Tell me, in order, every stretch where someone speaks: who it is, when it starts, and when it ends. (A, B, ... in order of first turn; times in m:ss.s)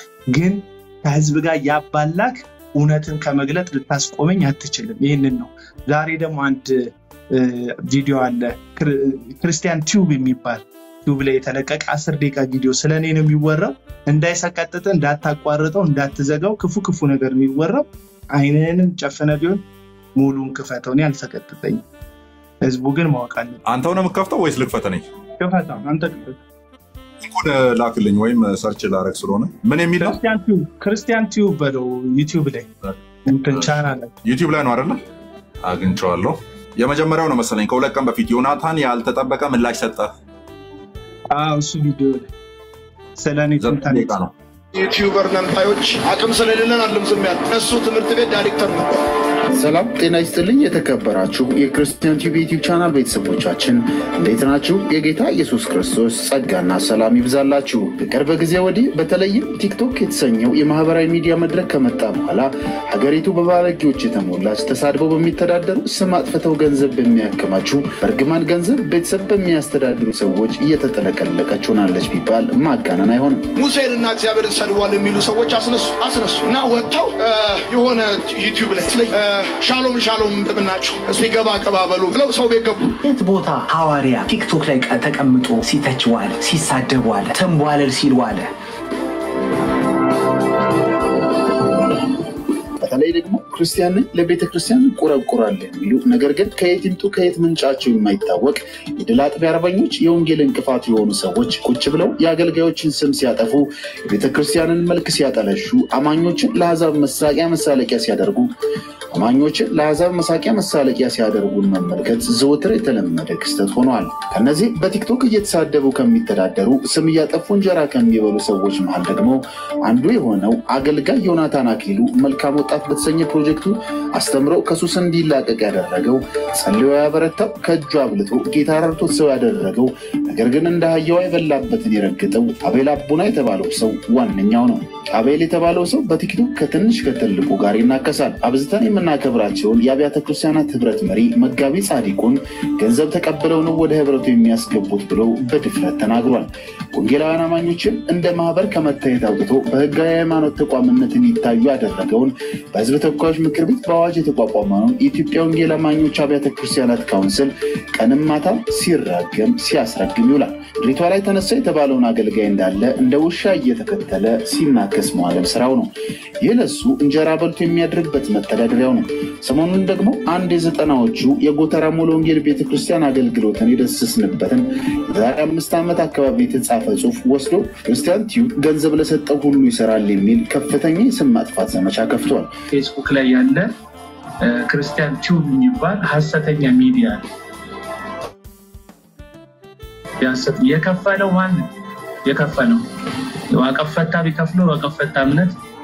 0:00.3-0:19.6 A
0:20.2-0:21.8 A
0:22.6-0:23.6 A
0:23.7-0:25.0 B
0:25.4-0:26.4 A
0:27.2-0:30.2 B
0:30.0-0:32.7 A
0:33.3-0:34.2 A
0:33.5-0:35.0 B
0:35.6-0:40.1 B
0:41.3-0:42.3 A
0:43.2-0:44.2 A
0:43.6-0:44.3 B
0:44.7-0:49.0 C
0:49.5-1:13.5 D
1:13.6-1:23.0 C
1:23.0-1:28.5 E
1:32.8-1:48.5 D
1:49.1-3:02.5 D
3:02.7-3:03.7 A
3:04.4-3:07.2 A
3:10.2-3:11.7 A
3:12.2-3:12.8 A
3:13.5-3:15.6 A